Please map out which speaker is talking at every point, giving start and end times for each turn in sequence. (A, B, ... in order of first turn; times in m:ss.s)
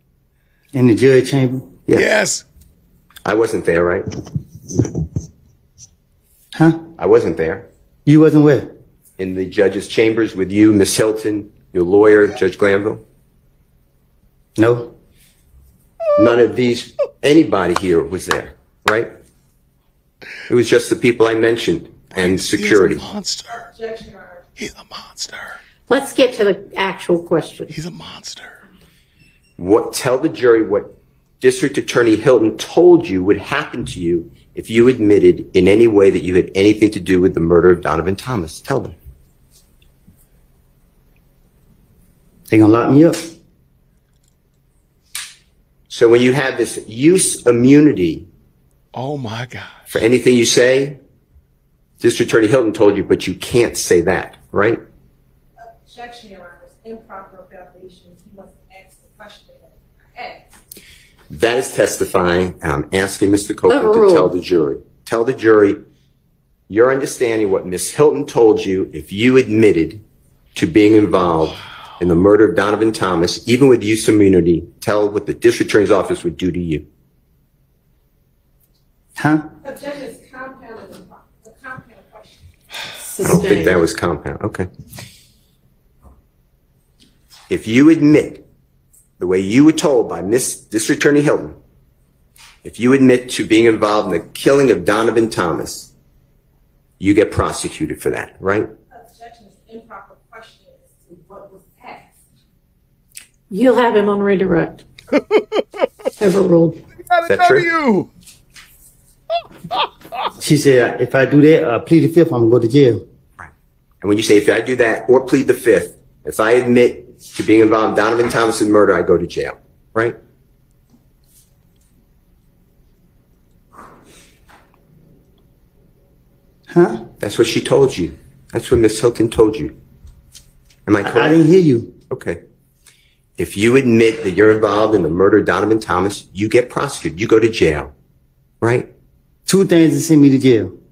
0:00.7-0:01.7 A
0:01.9-0:02.1 B
0:01.9-0:02.5 C
0:03.2-0:04.1 B
0:06.5-0:06.8 A
0:07.0-0:07.7 B
0:08.1-0:08.7 A
0:09.2-0:13.0 B
0:14.6-0:14.9 A
0:16.2-0:19.2 B
0:20.5-0:23.0 B
0:22.1-0:23.7 C
0:23.7-0:24.4 D
0:24.6-0:25.6 C
0:25.9-0:27.7 E
0:27.7-0:28.6 C
0:29.6-0:39.0 B
0:42.5-0:43.3 A
0:45.9-0:48.3 B
0:48.9-0:49.9 C
0:49.9-0:51.0 B
0:52.0-0:54.8 B
0:55.6-1:00.5 D
1:01.3-1:05.8 B
1:03.7-1:04.4 E
1:06.7-1:10.0 B
1:10.6-1:16.9 B
1:19.2-1:19.5 A
1:19.6-1:22.5 D
1:23.0-1:23.8 E
1:23.2-1:24.7 B
1:27.5-1:28.4 B
1:29.2-1:31.6 B
1:32.6-1:35.9 B
1:37.0-1:38.7 B
1:38.9-1:42.2 D
1:43.5-1:44.8 E
1:45.1-1:45.9 C
1:46.2-1:46.8 E
1:47.0-1:48.1 C
1:47.3-1:47.7 B
1:49.7-1:50.3 C
1:50.4-1:53.0 A
1:53.4-2:00.2 B
2:06.7-2:07.1 A
2:07.2-2:09.8 B
2:10.9-2:11.4 B
2:11.0-2:12.0 A
2:12.1-2:12.4 B
2:13.4-2:17.9 B
2:18.6-2:18.9 B
2:19.5-2:20.8 A